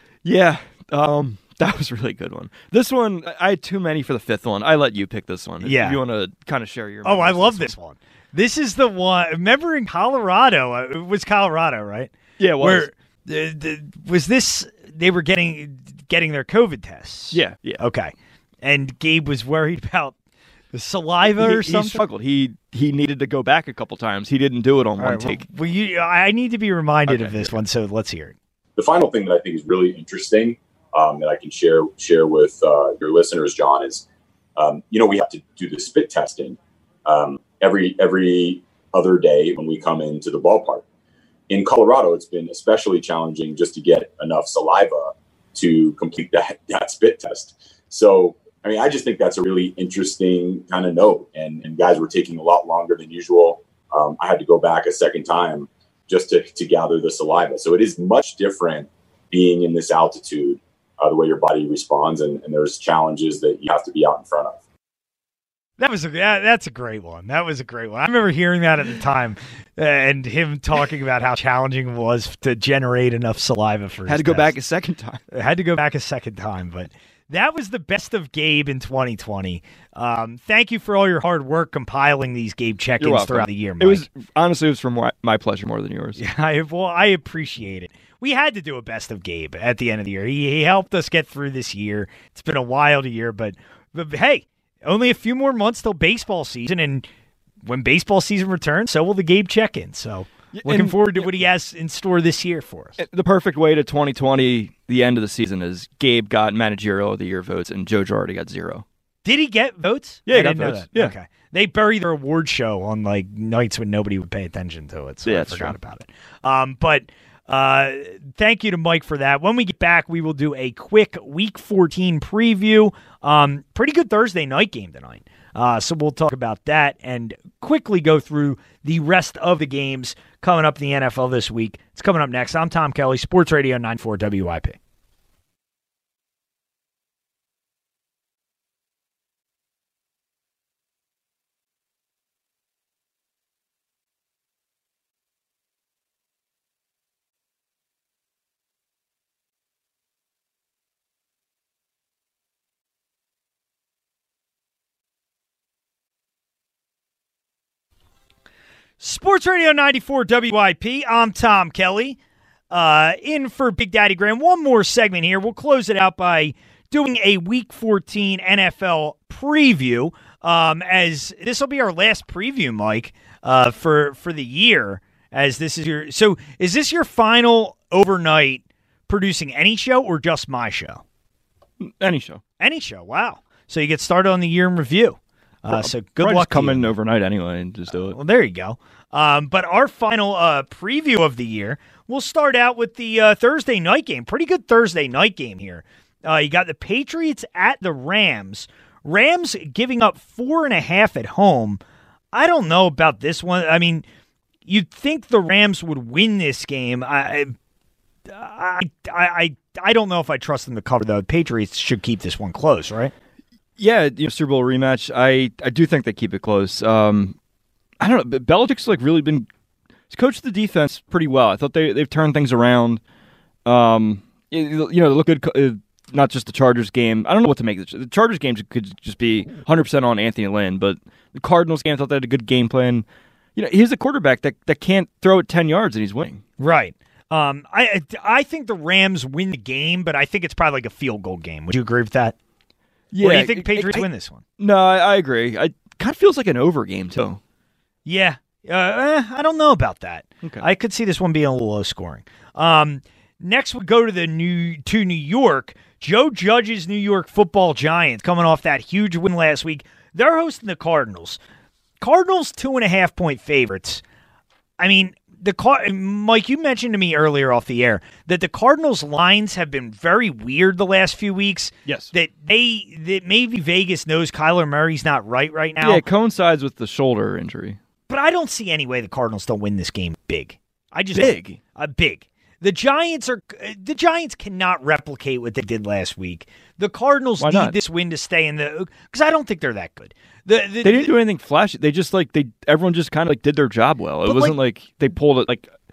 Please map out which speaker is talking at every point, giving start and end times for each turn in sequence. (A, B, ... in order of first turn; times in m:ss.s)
0:00.2-0:07.7 A
0:05.6-0:06.0 B
0:07.0-0:20.2 B
0:12.4-0:12.9 A
0:17.3-0:17.8 A
0:20.7-0:22.0 B
0:21.3-0:25.4 A
0:25.0-0:28.4 B
0:27.1-0:27.6 A
0:29.8-0:30.3 C
0:30.9-0:34.0 C
0:34.6-0:40.8 C
0:41.5-1:04.6 C
1:05.8-1:14.5 B
1:14.1-1:15.2 A
1:15.3-1:24.0 B
1:23.0-1:26.2 A
1:26.2-1:37.1 B
1:37.6-1:43.0 B
1:40.5-1:41.4 A
1:43.0-1:48.8 A
1:49.2-2:14.8 B
1:50.3-1:51.1 A
1:55.2-1:55.8 A
2:39.0-2:42.2 B
2:42.7-3:01.0 B
3:01.8-3:02.4 A
3:02.6-3:06.9 B
3:05.7-3:08.2 A
3:07.9-3:21.8 B
3:22.3-3:24.0 B
3:24.6-3:27.5 B
3:28.3-3:33.1 B
3:33.8-3:37.3 A
3:38.0-3:39.5 A
3:40.1-3:43.0 A
3:43.6-3:53.0 A
3:53.6-3:56.4 A
3:56.6-4:02.3 B
4:03.1-4:04.1 A
4:03.2-4:04.4 B
4:04.6-4:07.4 A
4:08.0-4:21.4 B
4:22.0-4:24.0 B
4:24.8-4:36.0 B
4:31.8-4:32.1 A
4:35.8-4:37.8 A
4:38.1-4:51.1 B
4:41.1-4:41.6 A
4:47.4-4:47.8 A
4:50.8-4:55.7 A
4:54.2-4:54.6 B